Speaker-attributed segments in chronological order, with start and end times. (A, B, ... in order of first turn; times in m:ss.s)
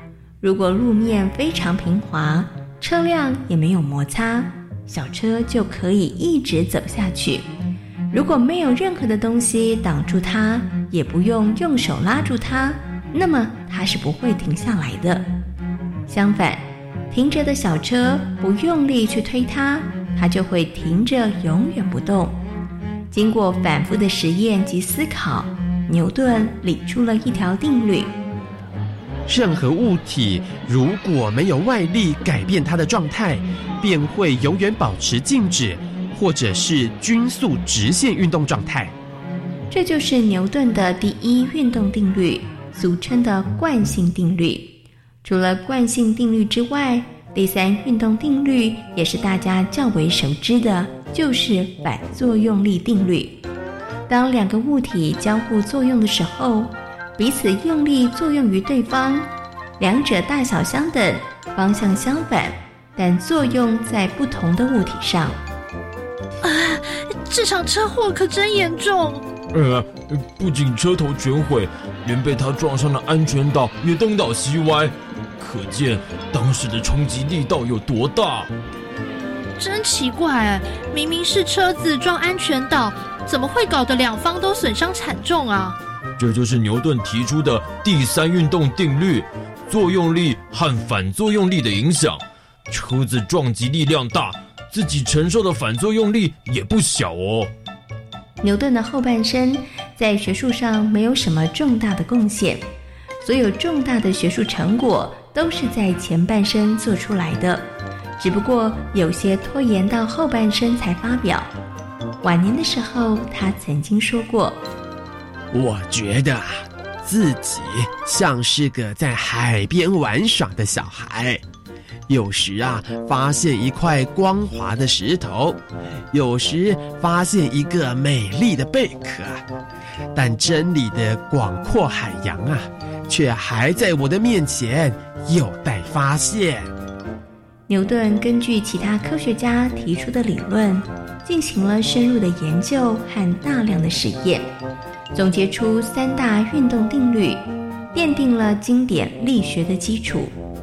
0:00.4-0:07.5 A
0:08.1-0:15.2 A
0:16.1-0:22.4 A
0:23.1-0:28.1 A
0:29.3-0:38.9 B
0:39.7-0:53.4 A
0:54.1-1:05.4 A
1:06.4-1:09.2 C
1:09.5-1:18.5 D
1:19.6-1:25.8 C
1:26.2-1:37.5 D
1:38.4-1:42.7 A
1:43.2-1:47.6 A
1:48.2-1:51.5 A
1:52.2-1:54.6 A
1:55.5-2:01.4 B
2:02.1-2:05.6 B
2:06.1-2:09.4 B
2:10.1-2:16.7 B
2:17.7-2:24.5 A
2:25.1-2:27.4 A
2:27.9-2:30.3 A